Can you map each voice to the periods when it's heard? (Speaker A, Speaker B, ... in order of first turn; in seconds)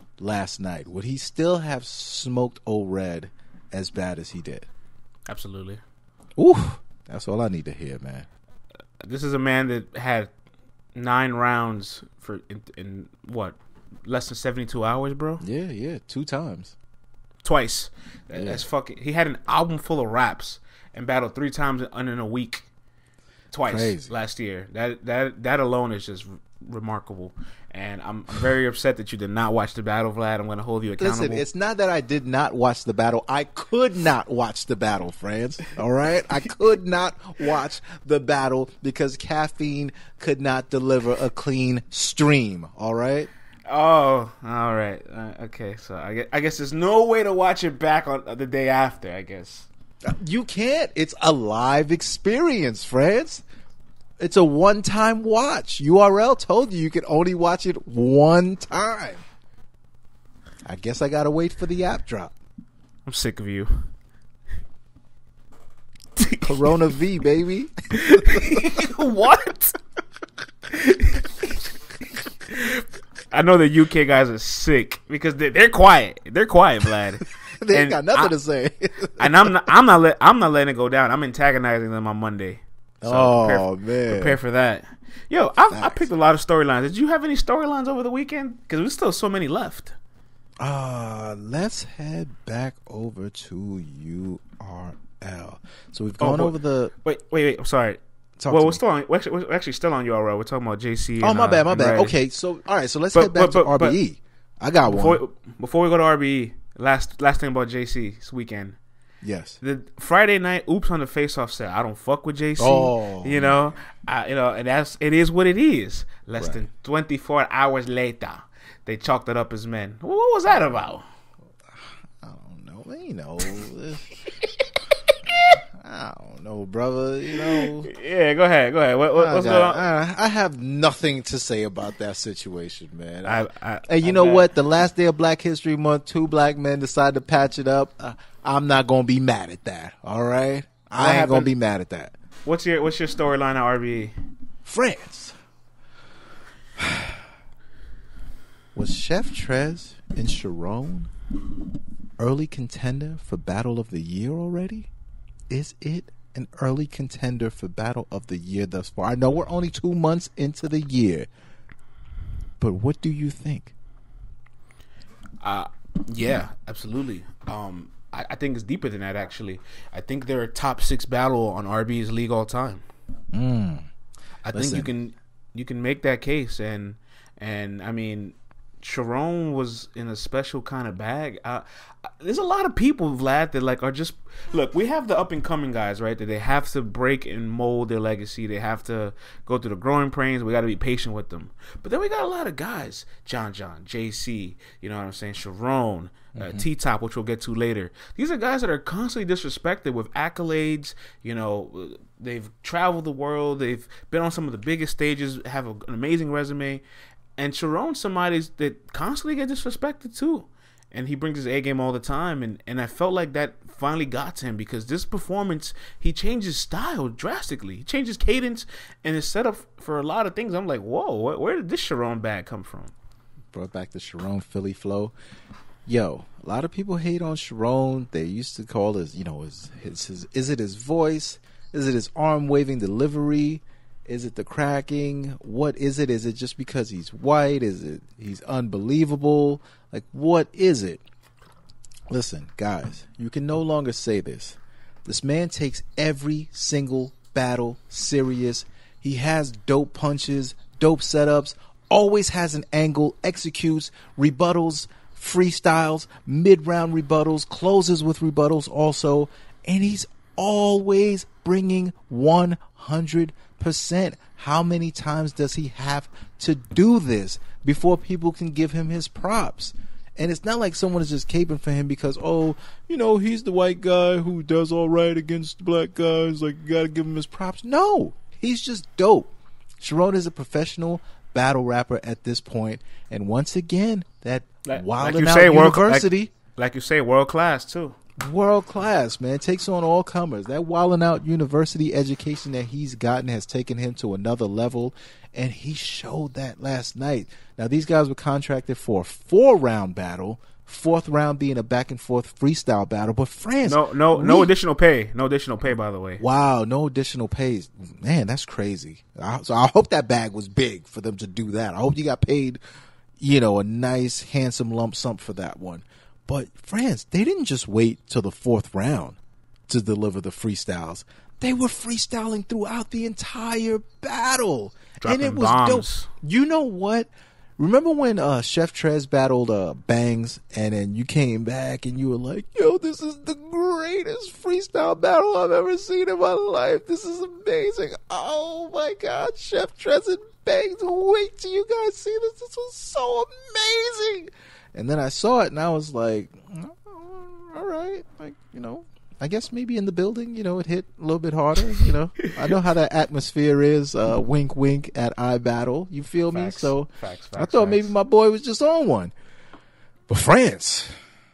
Speaker A: 0.2-4.7, 6.4-8.3, 15.4-16.8, 18.3-18.6, 23.7-24.1, 31.0-43.3, 50.0-53.4, 54.2-59.2, 60.6-62.3, 66.4-68.8, 77.6-79.5, 83.0-84.4, 85.6-86.1, 90.6-96.9, 98.4-98.8, 101.2-105.2, 109.2-109.6, 112.6-113.6, 122.2-124.1, 125.8-127.9, 129.2-142.1, 144.7-145.4, 146.8-147.2, 148.7-151.1, 152.2-154.9, 155.5-161.3, 162.6-163.7, 173.3-173.9, 174.5-174.9, 196.3-196.7, 223.5-225.1, 225.9-241.0, 242.1-286.3, 288.2-304.5, 306.2-312.6, 313.2-359.1, 360.1-361.0
Speaker B: 5.3-5.8, 9.0-10.3, 10.9-15.4, 17.4-22.7, 23.5-31.4, 43.7-49.7, 63.1-63.8, 66.2-66.5, 68.0-69.8, 70.7-71.6, 72.5-78.3, 79.2-90.0, 96.2-102.2, 103.1-104.0, 104.9-108.8, 109.6-121.0, 125.3-125.6, 127.4-129.8, 133.2-134.5, 141.0-141.5, 142.4-144.1, 165.4-172.8, 174.4-206.8, 207.4-222.9, 284.7-288.0, 303.6-306.2, 325.0-326.1, 352.2-352.5, 356.3-357.9